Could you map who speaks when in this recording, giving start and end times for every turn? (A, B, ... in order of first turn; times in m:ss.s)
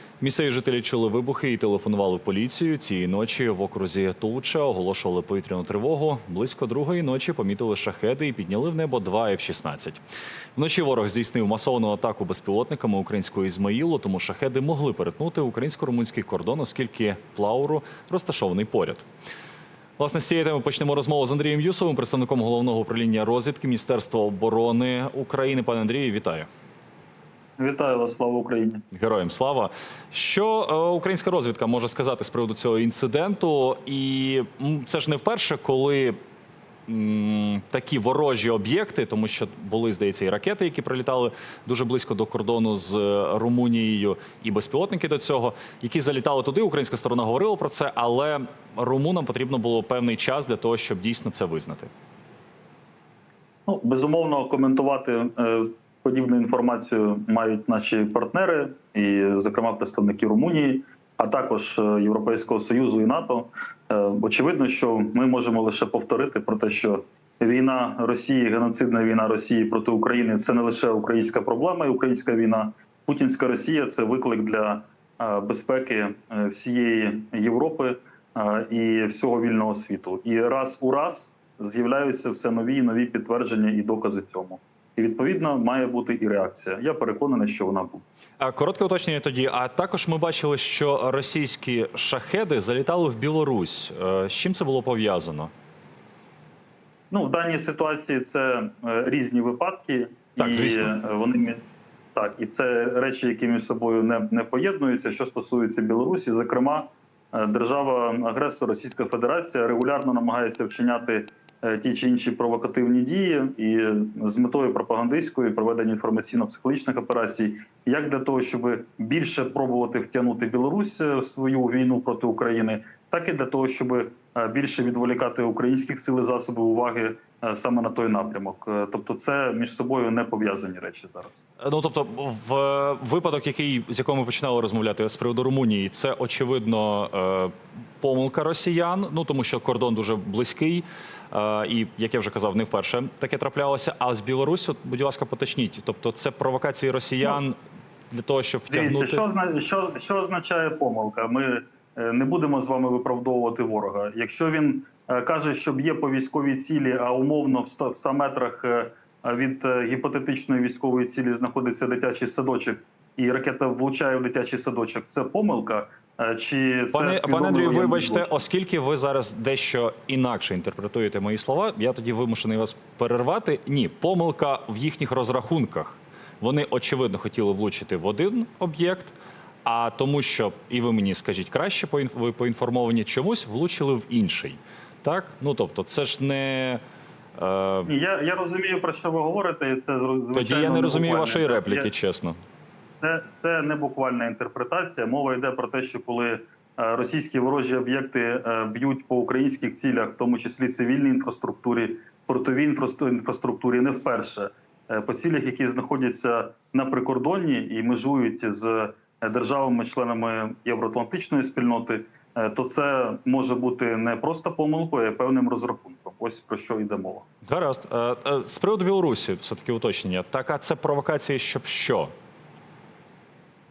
0:00.2-0:10.0 A
0:10.5-0:19.0 A
0:20.0-0:26.5 A
0:27.6-0:28.8 B
0:28.9-0:36.2 A
0:36.9-0:51.9 A
0:53.6-1:28.0 B
1:28.4-1:35.5 A
1:37.1-1:41.6 B
1:40.4-1:40.9 A
1:42.1-2:11.4 B
2:11.6-2:27.6 A
2:28.1-2:29.2 A
2:28.7-2:48.4 B
2:46.9-3:06.8 A
3:07.4-3:07.9 A
3:07.8-3:11.9 B
3:10.3-3:12.4 A
3:13.0-3:37.2 B
3:37.4-3:42.1 A